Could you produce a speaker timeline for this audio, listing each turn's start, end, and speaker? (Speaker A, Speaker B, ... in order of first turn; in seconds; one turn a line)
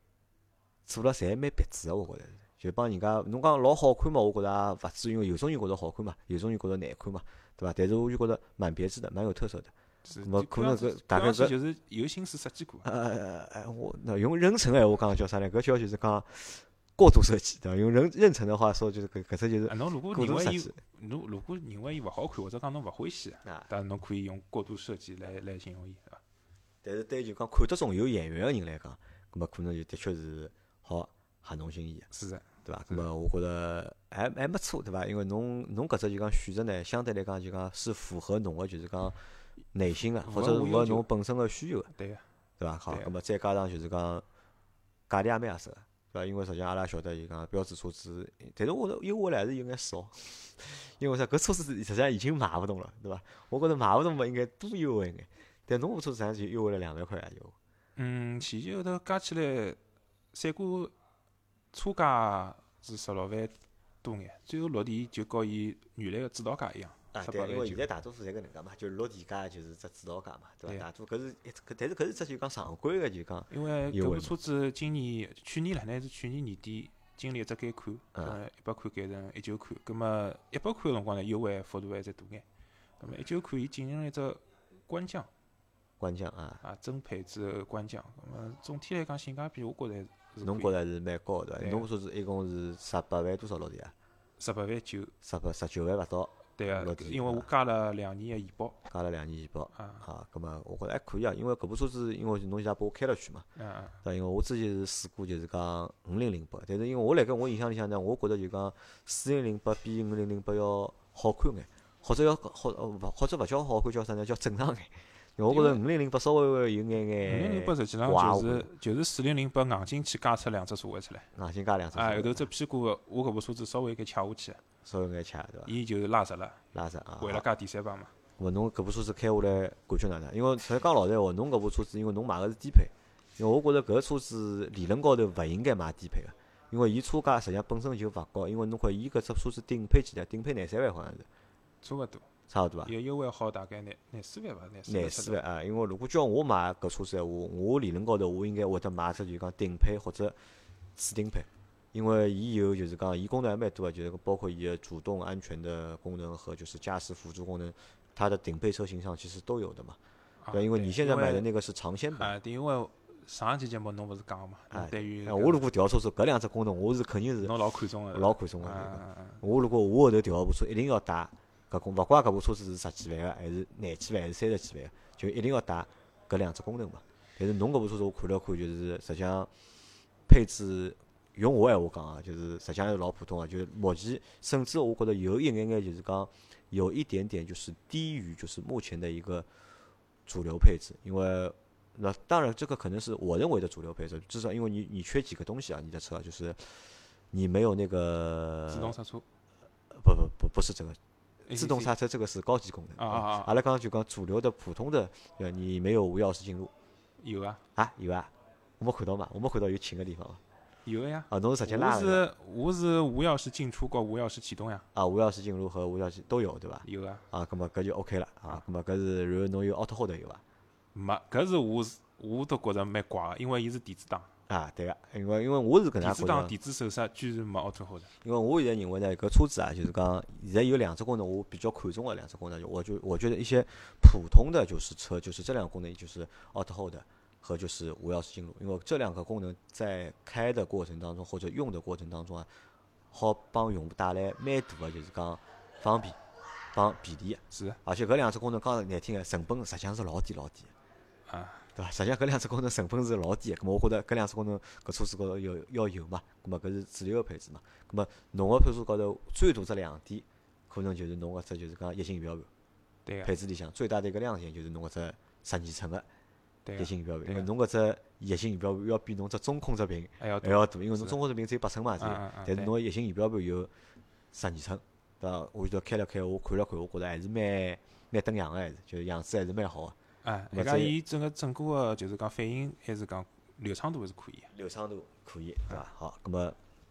Speaker A: 0.9-11.5
Speaker B: 10.0-12.8
Speaker A: 12.8-20.8
Speaker B: 19.7-26.2
Speaker A: 23.4-23.7
Speaker A: 26.8-32.1
Speaker B: 32.1-33.1
Speaker A: 32.6-39.2
Speaker A: 39.7-41.9
Speaker B: 40.2-41.1
Speaker B: 41.9-42.2
Speaker A: 42.6-44.2
Speaker A: 45.1-57.5
Speaker B: 58.0-59.8
Speaker B: 60.3-60.9
Speaker B: 61.7-67.9
Speaker A: 67.1-74.3
Speaker B: 73.5-82.5
Speaker A: 78.1-78.4
Speaker B: 83.0-85.3
Speaker A: 86.0-86.6
Speaker B: 86.6-90.7
Speaker A: 90.4-93.9
Speaker B: 91.6-91.9
Speaker B: 94.4-95.1
Speaker A: 95.2-97.5
Speaker B: 96.6-98.8
Speaker A: 98.9-103.5
Speaker B: 99.8-100.0
Speaker B: 103.5-104.0
Speaker A: 104.0-118.7
Speaker B: 115.5-115.8
Speaker B: 117.2-121.3
Speaker A: 121.3-122.5
Speaker B: 121.9-124.6
Speaker A: 124.8-125.8
Speaker B: 125.7-126.6
Speaker A: 126.7-127.4
Speaker B: 127.2-128.1
Speaker A: 128.4-141.2
Speaker B: 141.8-142.3
Speaker A: 142.5-142.9
Speaker B: 142.8-145.4
Speaker A: 144.9-150.3
Speaker A: 151.0-160.0
Speaker B: 160.4-161.5
Speaker A: 160.5-162.3
Speaker B: 162.2-165.6
Speaker A: 164.7-167.6
Speaker B: 167.4-169.4
Speaker A: 168.1-179.5
Speaker A: 180.3-189.5
Speaker A: 190.3-198.9
Speaker B: 198.7-199.2
Speaker A: 199.9-201.0
Speaker B: 201.4-201.9
Speaker A: 201.5-206.7
Speaker B: 203.0-203.5
Speaker B: 207.2-207.6
Speaker A: 207.8-210.4
Speaker B: 210.8-214.8
Speaker A: 211.3-212.3
Speaker A: 214.9-220.4
Speaker B: 216.8-217.2
Speaker B: 220.9-224.3
Speaker A: 224.5-226.5
Speaker B: 226.0-228.1
Speaker A: 228.2-242.5
Speaker A: 243.1-246.2
Speaker A: 246.7-250.7
Speaker B: 247.5-247.8
Speaker B: 251.3-251.7
Speaker A: 251.7-262.5
Speaker B: 263.1-263.3
Speaker A: 263.2-266.1
Speaker B: 266.6-267.5
Speaker A: 266.8-273.7
Speaker B: 270.2-271.2
Speaker B: 272.0-272.7
Speaker A: 274.3-279.9
Speaker B: 280.2-284.5
Speaker A: 280.5-280.9
Speaker A: 284.5-286.6